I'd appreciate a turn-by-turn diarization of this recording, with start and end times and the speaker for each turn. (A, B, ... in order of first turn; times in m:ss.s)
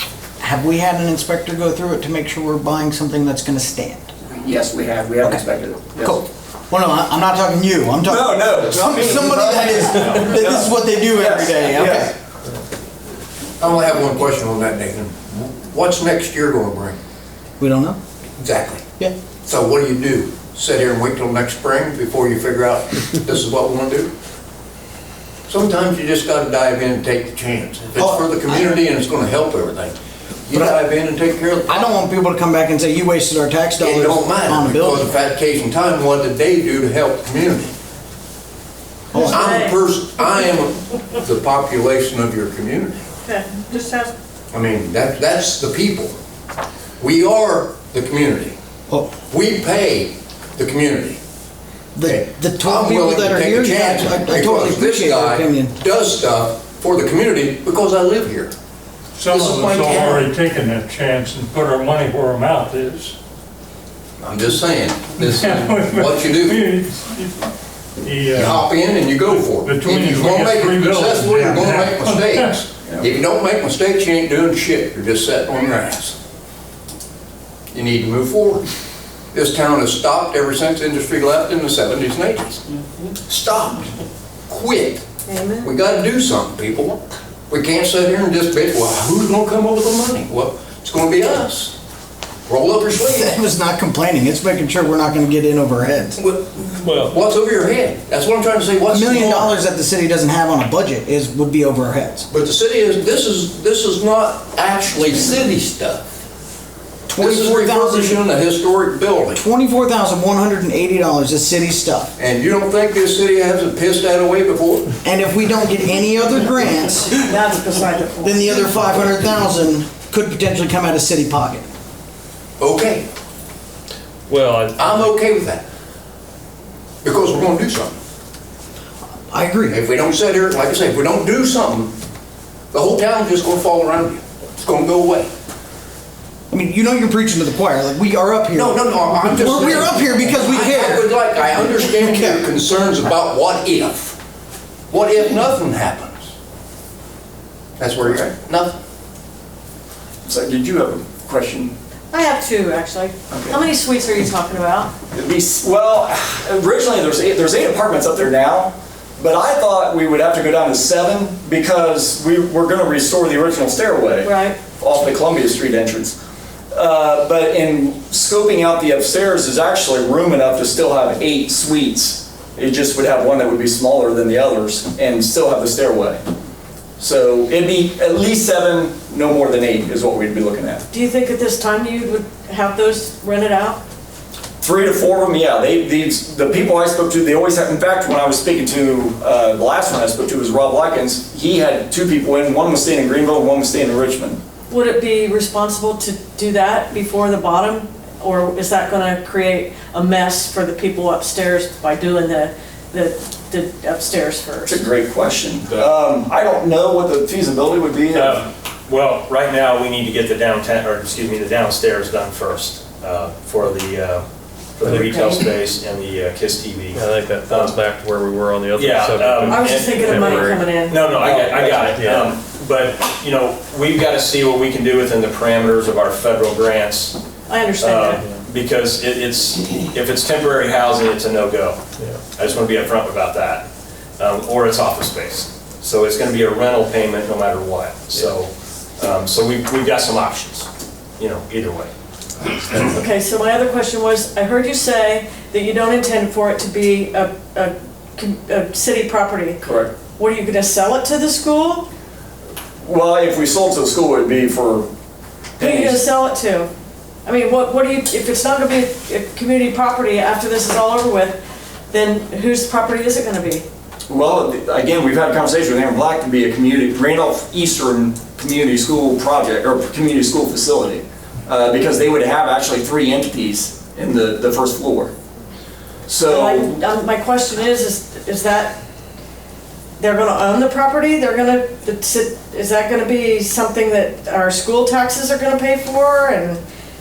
0:00.4-0:04.1 A
0:04.3-0:06.2 B
0:06.0-0:12.1 A
0:08.0-0:12.1 B
0:13.6-0:17.0 C
0:17.6-0:18.0 A
0:18.4-0:18.8 C
0:19.4-0:24.1 C
0:25.5-0:31.9 C
0:28.0-0:28.8 A
0:31.7-0:35.1 A
0:33.8-0:37.7 C
0:39.1-0:39.5 A
0:39.1-0:43.1 C
0:39.2-0:39.8 D
0:43.2-0:44.1 D
0:44.5-0:46.2 C
0:47.0-0:48.6 C
0:48.9-0:49.2 A
0:49.3-0:51.2 C
0:52.0-0:55.8 A
0:52.0-0:58.5 C
0:59.2-1:03.2 E
0:59.3-1:00.3 C
1:04.2-1:06.7 C
1:05.2-1:07.5 E
1:08.0-1:12.6 E
1:08.3-1:16.2 C
1:17.7-1:18.6 C
1:19.3-1:22.6 C
1:23.1-1:23.9 C
1:24.5-1:25.0 C
1:25.3-1:25.7 D
1:25.6-1:31.8 C
1:32.5-1:33.4 C
1:33.0-1:36.2 A
1:36.2-1:39.5 C
1:38.9-1:42.3 A
1:42.3-1:46.0 C
1:47.1-1:48.2 A
1:47.2-1:49.4 C
1:49.4-1:52.1 A
1:52.2-1:55.0 C
1:55.0-1:57.2 A
1:57.2-1:58.6 D
1:58.2-2:01.7 A
2:02.6-2:03.1 C
2:04.3-2:04.8 F
2:04.8-2:05.6 C
2:07.0-2:08.0 C
2:09.3-2:09.8 A
2:09.7-2:12.0 C
2:12.7-2:15.3 C
2:16.5-2:22.4 A
2:18.6-2:24.2 C
2:24.9-2:26.3 C
2:27.8-2:28.8 C
2:30.2-2:31.8 B
2:32.1-2:34.9 D
2:33.3-2:33.6 B
2:35.1-2:46.2 B
2:44.2-2:44.6 D
2:46.7-2:56.2 B
2:57.0-3:00.8 B
3:00.9-3:03.8 D
3:04.6-3:14.4 B
3:14.7-3:24.8 D
3:24.7-3:28.4 B
3:28.2-3:37.8 G
3:37.0-3:40.5 F
3:38.7-3:47.2 G
3:39.4-3:41.0 D
3:41.5-3:42.2 F
3:47.5-3:48.2 D
3:47.8-3:51.8 G
3:52.3-3:53.7 G
3:54.2-4:00.7 G
4:01.2-4:01.9 G
4:02.6-4:02.9 G
4:03.0-4:09.6 D
4:09.6-4:10.0 B
4:10.2-4:11.9 D
4:12.8-4:14.9 B
4:15.6-4:16.0 B
4:15.6-4:16.7 D
4:17.2-4:23.7 D
4:24.1-4:35.1 B
4:36.1-4:36.8 B
4:36.3-4:38.8 D
4:40.0-4:46.6 D